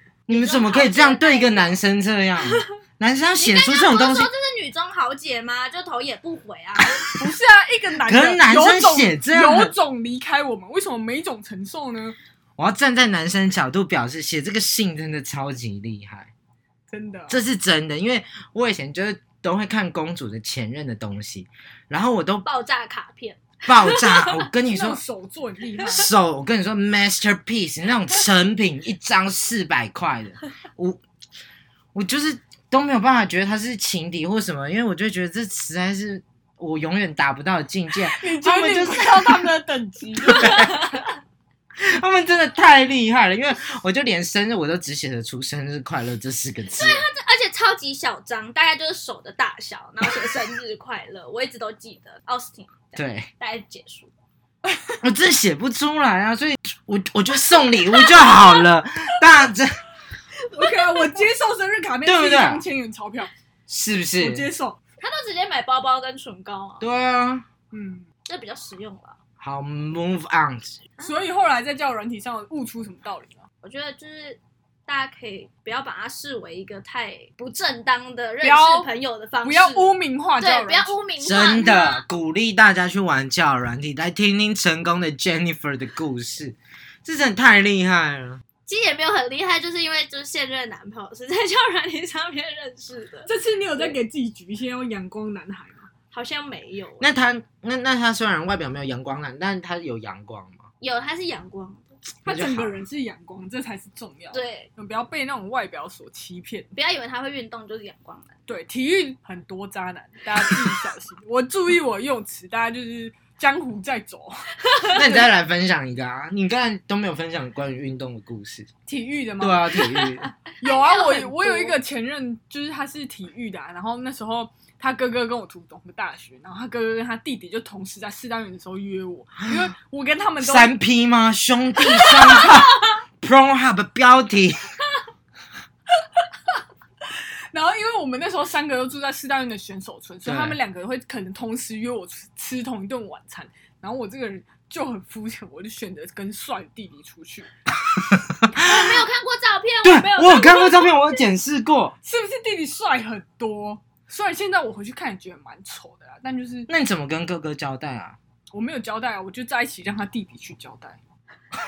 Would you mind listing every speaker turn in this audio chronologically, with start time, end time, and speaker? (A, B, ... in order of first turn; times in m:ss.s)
0:00.3-0:04.3 A
0:00.3-0:01.8 B
0:03.4-0:07.1 B
0:07.1-0:12.2 C
0:08.1-0:09.7 A
0:12.6-0:16.3 A
0:16.9-0:17.4 C
0:17.3-0:22.4 A
0:22.4-0:24.4 B
0:23.6-0:25.0 A
0:24.7-0:26.1 C
0:25.8-0:31.0 A
0:31.9-0:39.5 A
0:38.1-0:40.7 C
0:40.3-0:40.7 A
0:40.3-0:41.0 B
0:41.8-0:47.0 A
0:46.7-0:54.1 B
0:53.0-0:53.3 A
0:54.6-0:55.0 C
0:55.0-0:59.7 A
0:57.9-0:58.7 B
1:00.5-1:03.3 C
1:02.0-1:02.6 A
1:03.7-1:04.5 A
1:04.2-1:04.8 C
1:05.0-1:06.8 B
1:06.8-1:07.4 A
1:07.7-1:08.1 C
1:08.2-1:09.2 B
1:09.4-1:10.8 A
1:11.0-1:13.4 C
1:13.6-1:22.0 B
1:18.4-1:18.9 C
1:19.4-1:20.9 C
1:21.2-1:28.4 A
1:28.6-1:34.0 B
1:33.3-1:35.9 C
1:36.1-1:37.1 B
1:37.0-1:40.6 A
1:40.8-1:41.9 B
1:42.2-1:42.7 A
1:42.2-1:46.7 C
1:44.3-1:44.7 B
1:46.7-1:48.4 B
1:48.5-1:55.2 C
1:54.9-1:58.7 A
1:58.8-2:00.1 C
1:59.4-2:00.3 A
2:00.5-2:01.8 B
2:00.6-2:10.7 C
2:10.4-2:14.6 A
2:12.0-2:12.6 B
2:17.5-2:27.5 C
2:20.2-2:20.6 A
2:28.5-2:31.2 B
2:29.8-2:31.9 A
2:32.0-2:36.7 C
2:36.7-2:38.2 A
2:38.5-2:41.0 C